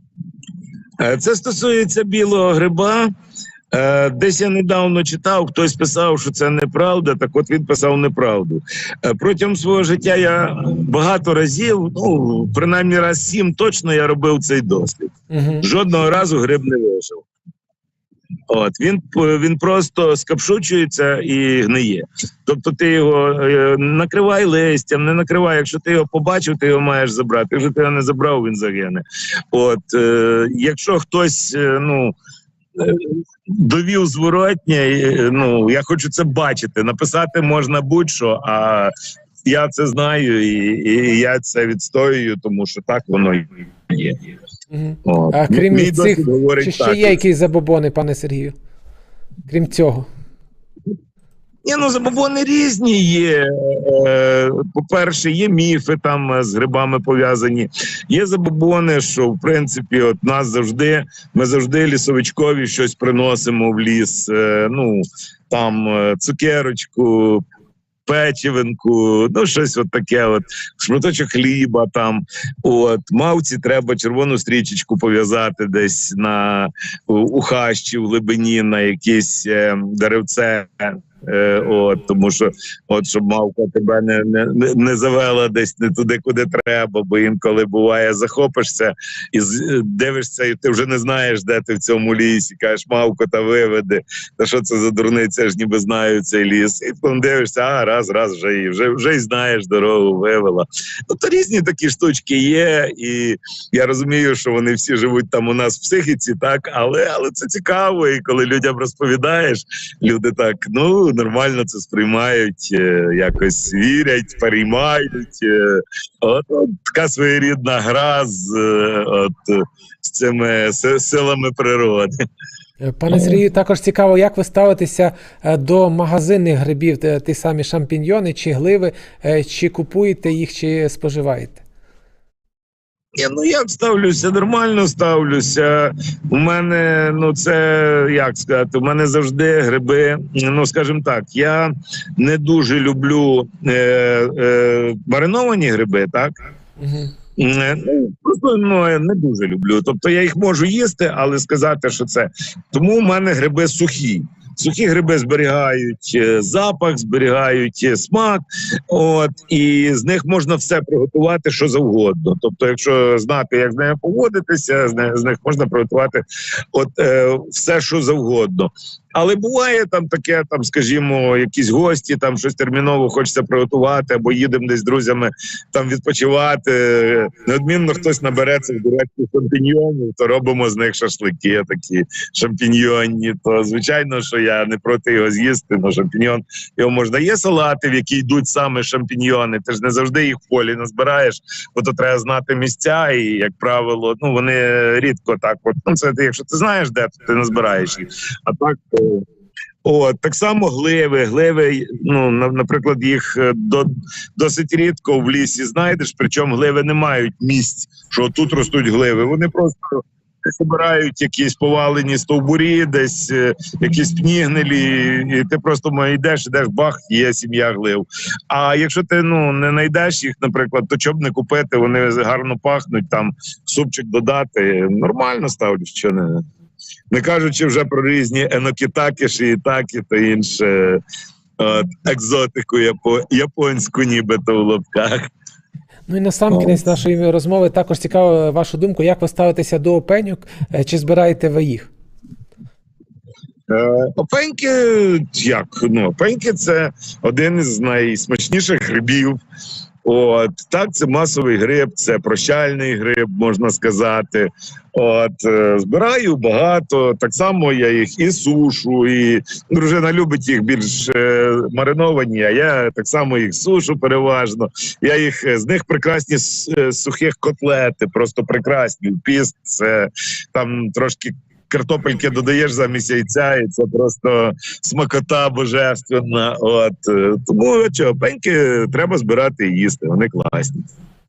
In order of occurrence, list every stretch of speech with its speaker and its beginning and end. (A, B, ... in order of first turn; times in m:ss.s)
0:01.0-0:03.1 A
0:03.7-0:17.2 A
0:15.3-0:15.6 B
0:18.5-0:32.2 A
0:32.8-0:38.9 A
0:39.4-0:44.2 A
0:44.7-0:48.5 B
0:45.0-0:47.2 A
0:49.5-0:50.1 B
0:51.6-1:07.4 A
1:08.0-2:02.2 A
2:02.8-2:11.6 B
2:03.1-2:03.4 A
2:13.2-2:26.3 A
2:26.8-2:27.1 B
2:27.4-2:46.2 A
2:46.7-3:19.2 A
3:19.8-3:46.4 A
3:47.1-3:51.0 A
3:51.6-3:55.3 A
3:56.1-4:01.9 B
3:56.5-3:56.8 A
4:03.7-4:09.4 A
4:10.0-4:40.9 A